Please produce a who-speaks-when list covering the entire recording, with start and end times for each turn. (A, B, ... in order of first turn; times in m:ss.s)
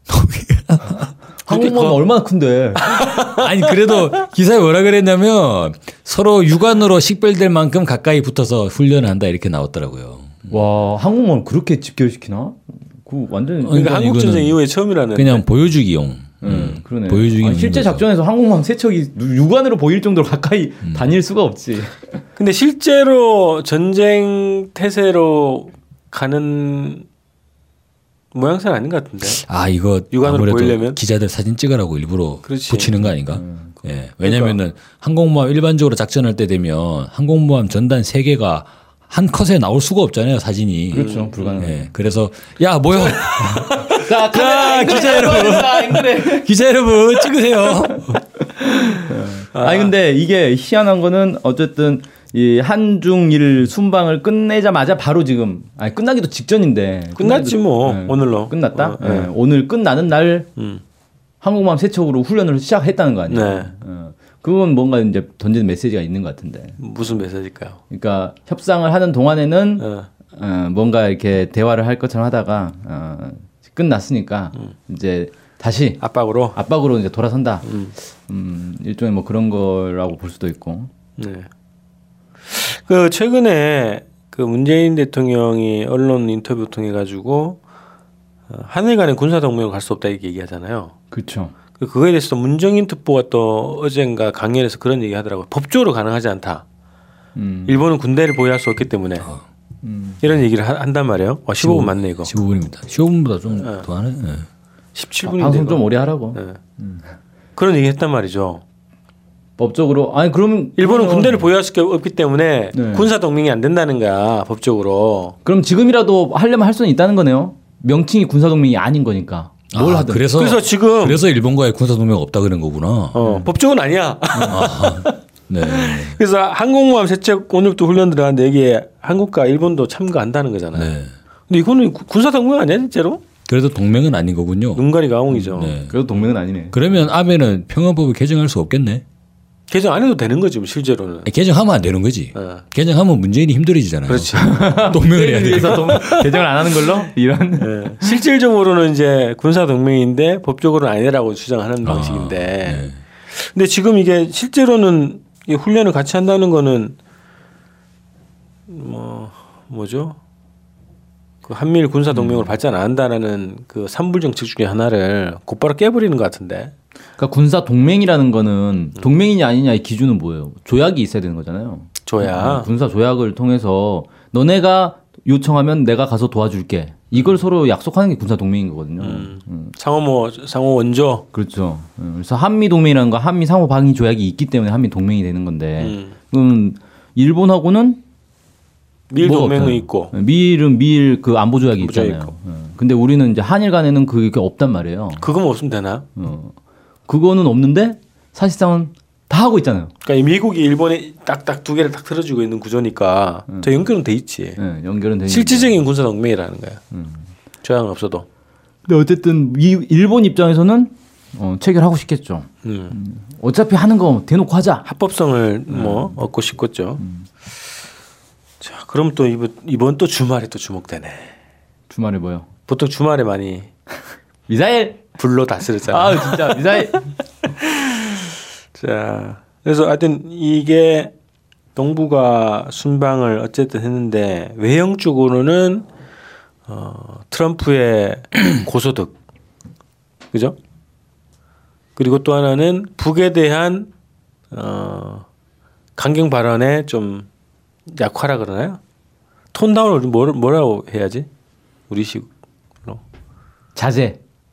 0:00.1-0:01.9 A
0:01.4-0:02.9 B
0:01.5-0:01.8 C
0:02.9-0:10.6 A
0:03.0-0:03.4 C
0:10.5-0:14.0 B
0:13.6-0:14.6 A
0:13.7-0:15.5 C
0:15.1-0:18.0 A
0:16.4-0:22.2 B
0:20.8-0:21.2 A
0:22.4-0:27.1 C
0:28.3-0:29.4 C
0:29.2-0:48.2 A
0:30.1-0:31.0 C
0:32.4-0:33.1 C
0:33.3-0:33.7 B
0:34.2-0:34.6 C
0:40.9-0:41.9 B
0:41.0-0:41.6 C
0:43.5-0:46.5 B
0:47.6-0:48.2 B
0:48.6-0:49.9 C
0:49.1-1:00.5 B
0:57.2-0:59.3 C
1:00.6-1:00.8 C
1:01.4-1:06.8 B
1:03.3-1:03.7 C
1:06.8-1:07.8 C
1:07.9-1:16.0 B
1:09.8-1:10.1 C
1:16.0-1:16.6 C
1:16.6-1:17.7 B
1:17.6-1:18.0 C
1:18.3-1:20.9 B
1:21.2-1:21.5 C
1:22.5-1:27.6 C
1:28.5-1:30.9 C
1:31.1-1:31.6 B
1:31.8-1:36.6 C
1:37.4-1:37.8 B
1:37.7-1:39.3 C
1:39.8-1:40.2 B
1:40.2-1:42.4 C
1:41.6-1:44.5 A
1:43.5-1:43.9 C
1:45.0-1:46.6 C
1:45.2-1:47.1 B
1:47.6-1:48.6 C
1:49.6-1:51.5 B
1:50.8-1:55.4 C
1:52.7-1:53.1 B
1:55.4-2:00.3 B
1:59.7-2:03.2 A
2:00.4-2:01.2 C
2:03.1-2:10.9 C
2:03.2-2:03.5 B
2:04.4-2:06.2 A
2:10.7-2:11.1 A
2:11.5-2:13.2 C
2:13.5-2:14.9 A
2:14.8-2:15.8 C
2:15.4-2:16.0 A
2:15.9-2:16.9 B
2:16.7-2:19.0 A
2:19.7-2:21.3 C
2:21.3-2:26.5 A
2:22.3-2:22.6 C
2:24.1-2:24.7 C
2:24.3-2:28.2 B
2:27.6-2:37.0 C
2:31.8-2:33.0 A
2:38.7-2:40.2 C
2:41.4-2:46.7 C
2:42.1-2:42.5 B
2:47.2-2:59.7 B
2:52.0-2:52.7 C
2:57.2-2:57.4 C
2:59.0-3:01.3 C
3:01.3-3:08.0 B
3:05.8-3:06.2 C
3:09.1-3:10.1 C
3:09.2-3:15.3 B
3:11.8-3:12.3 C
3:15.2-3:16.1 C
3:16.2-3:16.5 B
3:17.1-3:19.9 B
3:20.0-3:24.6 C
3:23.5-3:23.8 B
3:24.6-3:25.8 B
3:25.3-3:26.8 C
3:26.9-3:27.3 B
3:27.6-3:28.3 C
3:28.9-3:34.9 B
3:32.6-3:33.0 C
3:34.8-3:37.0 C
3:35.7-3:36.2 B
3:37.0-3:37.3 B
3:38.6-3:41.3 C
3:41.9-3:42.5 B
3:42.7-3:43.7 C
3:44.5-3:45.0 B
3:45.2-3:47.0 C
3:45.8-3:47.0 B
3:47.6-3:51.1 C
3:51.8-3:55.9 C
3:56.7-3:59.1 C
4:00.3-4:00.6 C
4:02.0-4:03.9 C
4:04.5-4:05.3 C
4:06.0-4:07.3 C
4:07.9-4:08.8 C
4:09.5-4:11.3 C
4:11.9-4:12.3 C
4:13.8-4:14.2 B